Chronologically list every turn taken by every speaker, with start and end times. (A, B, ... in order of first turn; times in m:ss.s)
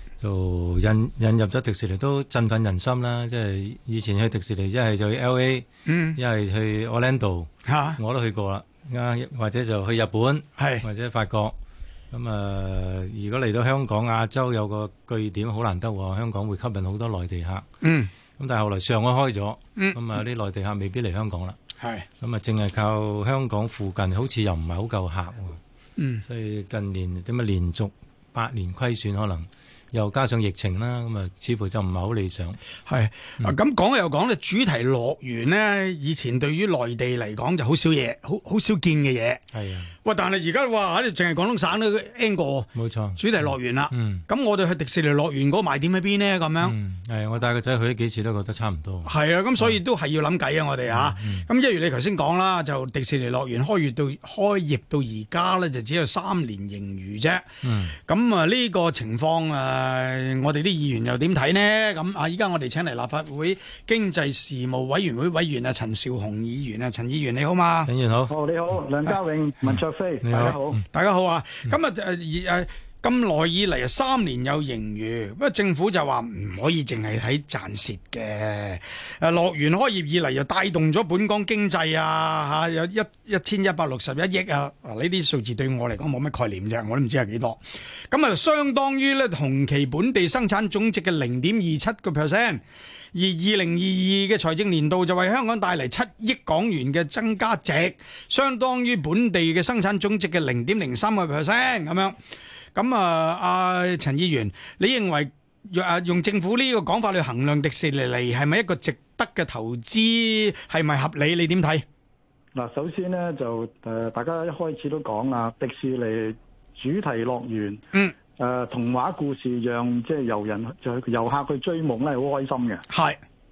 0:00.2-0:11.5 A
0:05.8-0:06.2 B
0:07.6-0:08.0 B
0:10.6-0:10.8 B
0:12.1-0:17.6 A
0:17.8-0:18.1 B
0:18.4-0:21.6 A
0:21.8-0:22.0 B
0:22.2-0:25.6 A
0:26.0-0:26.2 B
0:26.2-0:32.6 A
0:32.8-0:39.4 B
0:39.5-0:39.9 A
0:40.0-0:46.8 B
0:42.7-0:44.2 A
0:46.6-0:49.8 A
0:49.0-0:57.5 B
0:50.9-0:51.5 A
0:57.6-0:58.0 A
0:58.1-1:07.9 B
1:07.8-1:08.3 A
1:08.3-1:10.8 C
1:10.2-1:10.8 A
1:10.9-1:32.6 B
1:33.1-1:42.2 B
1:42.7-1:51.8 B
1:52.5-1:57.8 C
1:58.4-2:02.8 C
2:02.9-2:03.2 B